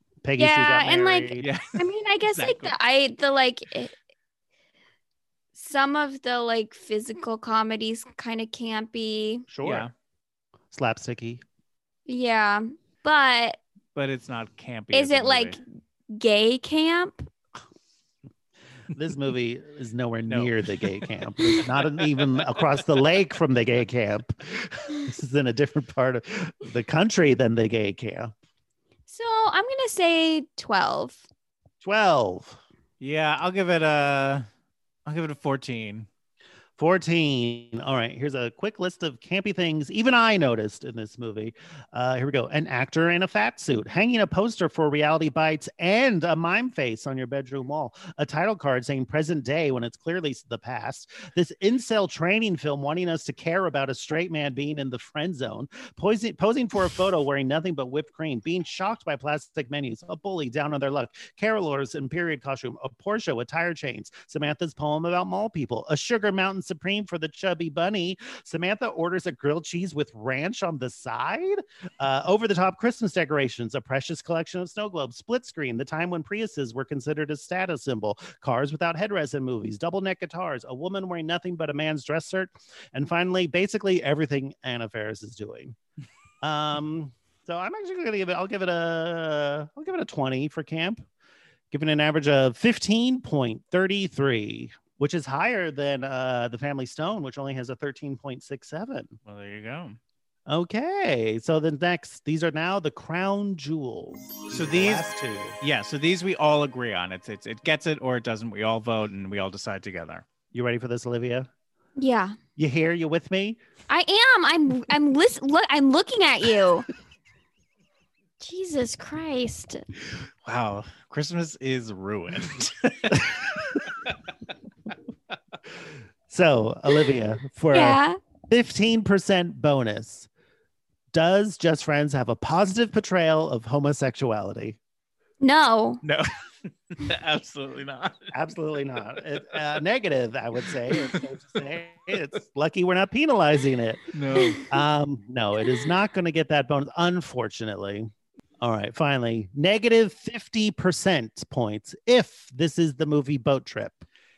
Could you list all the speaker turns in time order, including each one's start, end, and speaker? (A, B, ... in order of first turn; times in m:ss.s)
0:00.2-0:01.5 A
0:00.4-0:03.9 B
0:01.4-0:01.8 C
0:02.3-0:02.7 C
0:05.6-0:09.5 B
0:09.5-0:09.9 A
0:09.6-0:09.9 C
0:10.7-0:11.4 A
0:12.1-0:13.6 B
0:14.0-0:15.6 C
0:14.9-0:17.3 B
0:18.9-0:28.3 A
0:20.3-0:21.0 C
0:29.1-0:31.2 B
0:31.8-0:32.6 A
0:33.0-0:34.5 C
0:35.1-0:36.1 C
0:36.8-1:25.8 A
1:26.4-1:31.0 A
1:31.7-1:39.2 A
1:39.3-1:40.0 C
1:40.5-1:45.6 A
1:44.5-1:45.1 C
1:45.6-1:50.2 C
1:50.5-1:51.5 A
1:52.0-1:52.4 B
1:52.6-1:53.6 A
1:53.9-1:56.9 B
1:58.4-1:59.8 B
2:00.4-2:03.8 C
2:06.3-2:10.3 A
2:07.7-2:08.2 B
2:11.1-2:14.8 A
2:15.4-2:16.0 B
2:16.0-2:16.3 C
2:16.9-2:18.3 C
2:18.3-2:24.1 A
2:20.9-2:21.2 C
2:24.1-2:24.7 C
2:24.7-2:28.1 A
2:28.6-2:34.0 A